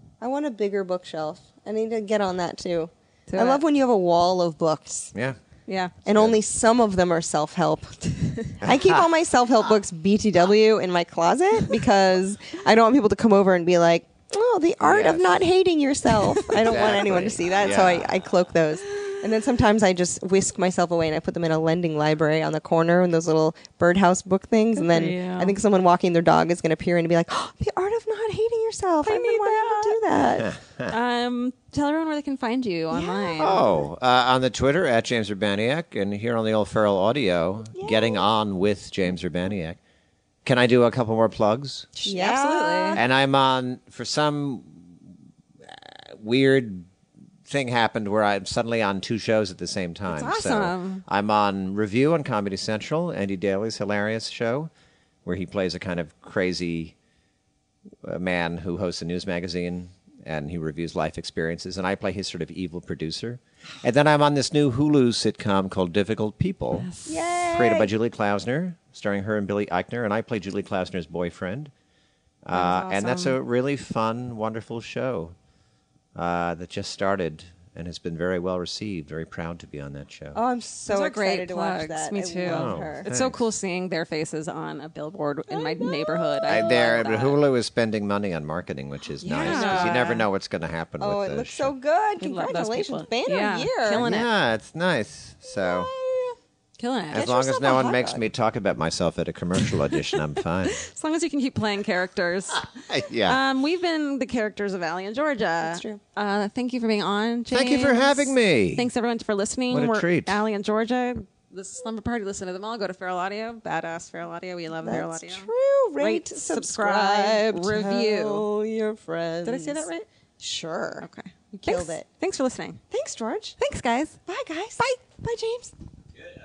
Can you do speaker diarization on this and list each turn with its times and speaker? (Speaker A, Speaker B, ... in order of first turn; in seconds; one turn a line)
Speaker A: 0.2-5.1
Speaker B: 3.3-3.6
Speaker B: 5.7-5.9
Speaker A: 6.0-30.5
Speaker C: 6.1-6.4
Speaker C: 8.6-9.1
Speaker C: 14.8-15.4
Speaker B: 16.3-16.9
Speaker C: 16.6-18.1
Speaker B: 18.9-19.1
Speaker B: 24.8-25.6
Speaker B: 29.0-30.0
Speaker C: 30.4-31.0
Speaker B: 30.9-33.6
Speaker A: 32.9-33.8
Speaker C: 33.4-39.8
Speaker A: 37.7-38.2
Speaker C: 40.5-41.9
Speaker B: 42.0-43.0
Speaker A: 42.0-43.0
Speaker C: 43.0-45.0
Speaker C: 45.7-46.9
Speaker C: 47.5-54.7
Speaker B: 50.1-51.0
Speaker C: 55.2-57.0
Speaker C: 58.0-66.9
Speaker B: 66.7-67.3
Speaker A: 67.1-67.9
Speaker C: 67.5-71.7
Speaker C: 72.4-75.3
Speaker B: 72.5-73.4
Speaker C: 76.2-80.4
Speaker A: 80.3-83.1
Speaker B: 80.9-87.4
Speaker C: 82.4-83.4
Speaker A: 85.5-86.7
Speaker C: 86.5-91.7
Speaker B: 89.2-90.3
Speaker A: 89.4-90.1
Speaker A: 91.0-94.0
Speaker B: 92.2-94.3
Speaker C: 94.0-95.9
Speaker A: 95.5-96.4
Speaker B: 96.8-97.3
Speaker C: 97.1-100.8
Speaker A: 97.1-98.2
Speaker B: 100.7-102.7
Speaker C: 102.8-103.4
Speaker B: 103.2-118.5
Speaker A: 105.6-106.0
Speaker C: 107.5-108.9
Speaker C: 109.7-110.4
Speaker A: 114.8-119.9
Speaker B: 119.5-120.1
Speaker A: 120.4-122.1
Speaker B: 121.0-122.8
Speaker A: 122.9-123.6
Speaker B: 123.6-124.2
Speaker A: 124.3-125.7